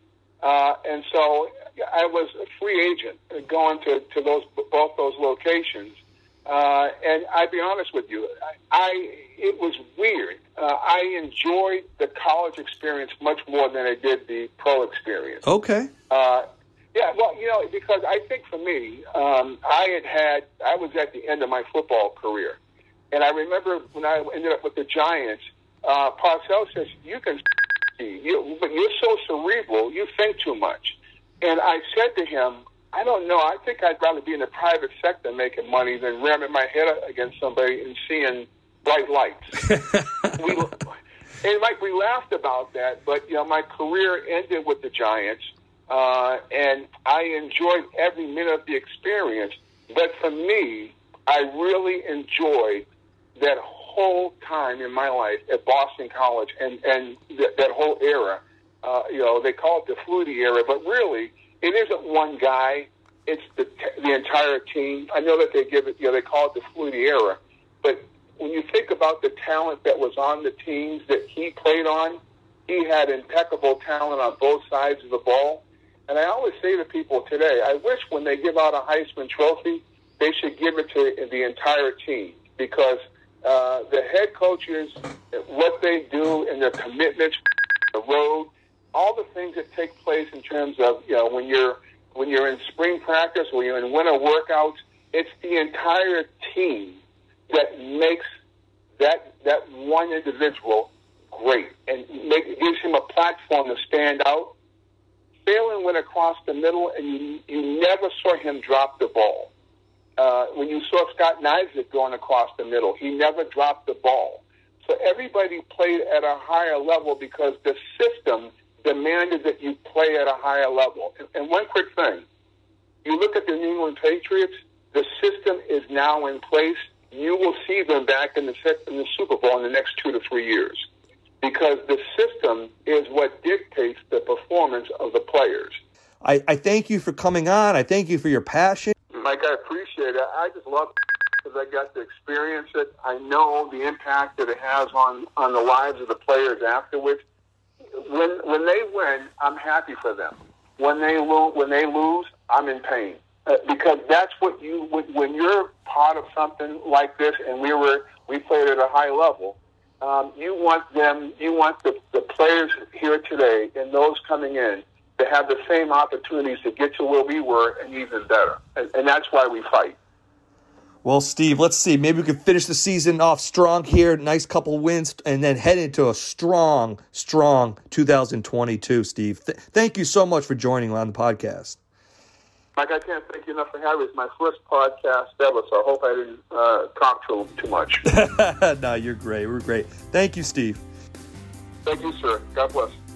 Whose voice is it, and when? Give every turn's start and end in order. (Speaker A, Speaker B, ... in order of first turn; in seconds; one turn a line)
Speaker A: 0.4-15.4
Speaker B: 15.4-15.9
Speaker A: 16.1-22.6
Speaker A: 23.1-27.4
Speaker A: 28.0-39.7
Speaker A: 40.4-40.9
Speaker A: 41.4-87.4
Speaker A: 87.9-98.2
Speaker A: 99.0-104.6
Speaker A: 105.5-109.5
Speaker A: 110.2-122.2
Speaker A: 123.0-130.8
Speaker A: 131.4-135.8
Speaker B: 136.2-138.9
Speaker A: 139.1-147.2
Speaker A: 147.9-170.0
Speaker B: 171.0-181.8
Speaker A: 182.8-188.1
Speaker B: 188.1-190.8
Speaker A: 191.9-193.0